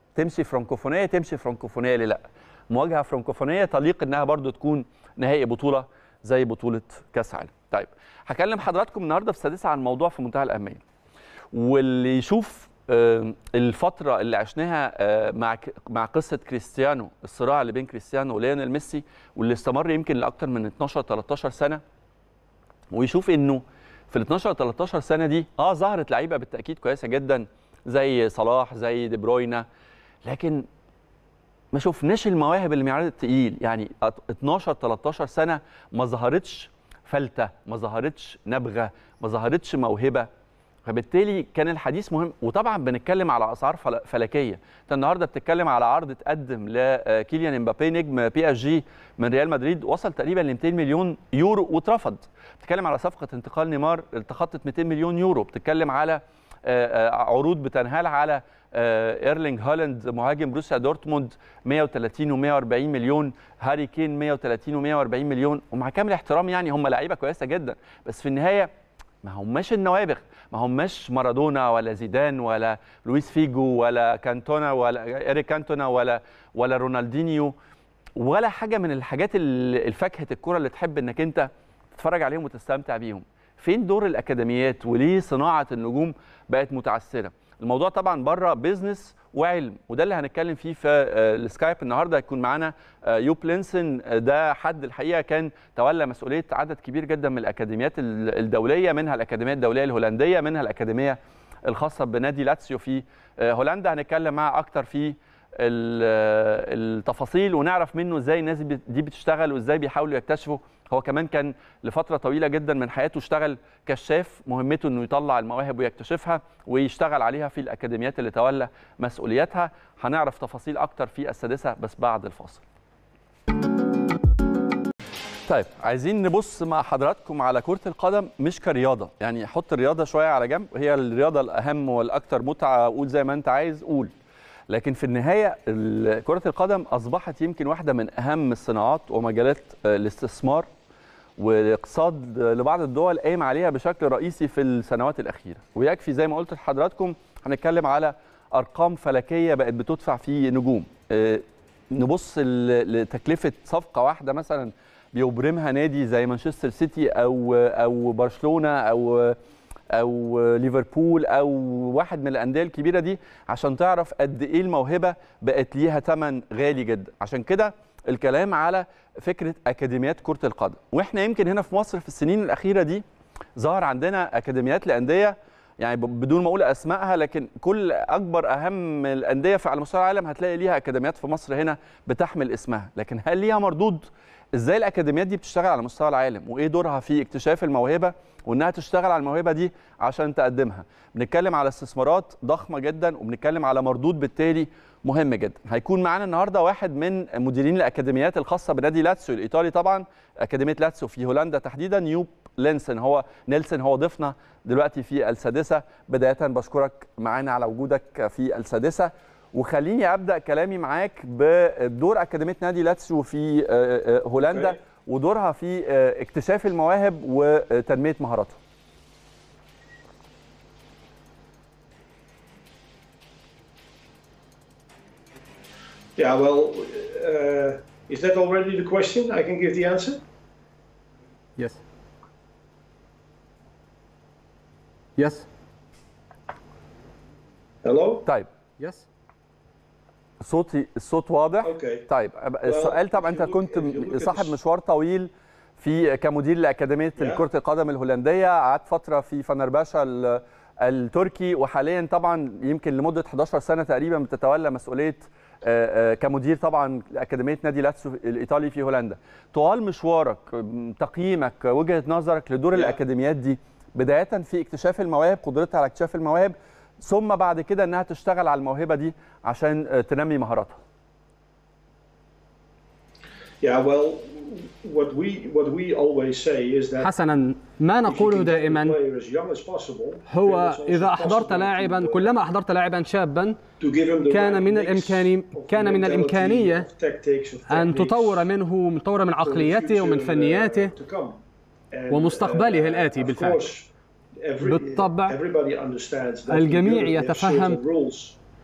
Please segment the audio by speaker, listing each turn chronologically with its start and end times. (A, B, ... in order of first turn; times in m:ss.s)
0:00.2-0:10.8 A
0:11.5-0:21.8 A
0:22.9-0:29.7 A
0:30.2-0:30.7 A
0:31.7-0:40.3 A
0:40.9-1:08.7 A
1:09.2-1:17.5 A
1:18.2-2:02.6 A
2:05.5-2:14.1 A
2:14.7-2:20.7 A
2:21.4-2:39.4 A
2:39.9-2:53.0 A
2:53.6-3:38.6 A
3:34.5-3:34.8 B
3:46.2-3:50.2 B
3:55.2-3:55.5 C
3:57.8-3:58.3 B
3:58.8-3:59.0 C
4:00.4-4:30.8 A
4:01.6-4:02.1 B
4:02.6-4:04.6 B
4:07.2-4:07.4 B
4:33.6-4:37.1 B
4:37.0-4:39.0 C
4:38.0-4:42.3 B
4:40.3-4:43.6 C
4:43.8-4:48.5 B
4:44.3-4:46.9 C
4:47.7-4:50.9 C
4:49.4-4:58.4 B
4:52.1-4:53.6 C
4:54.6-4:55.4 C
4:56.5-4:57.8 C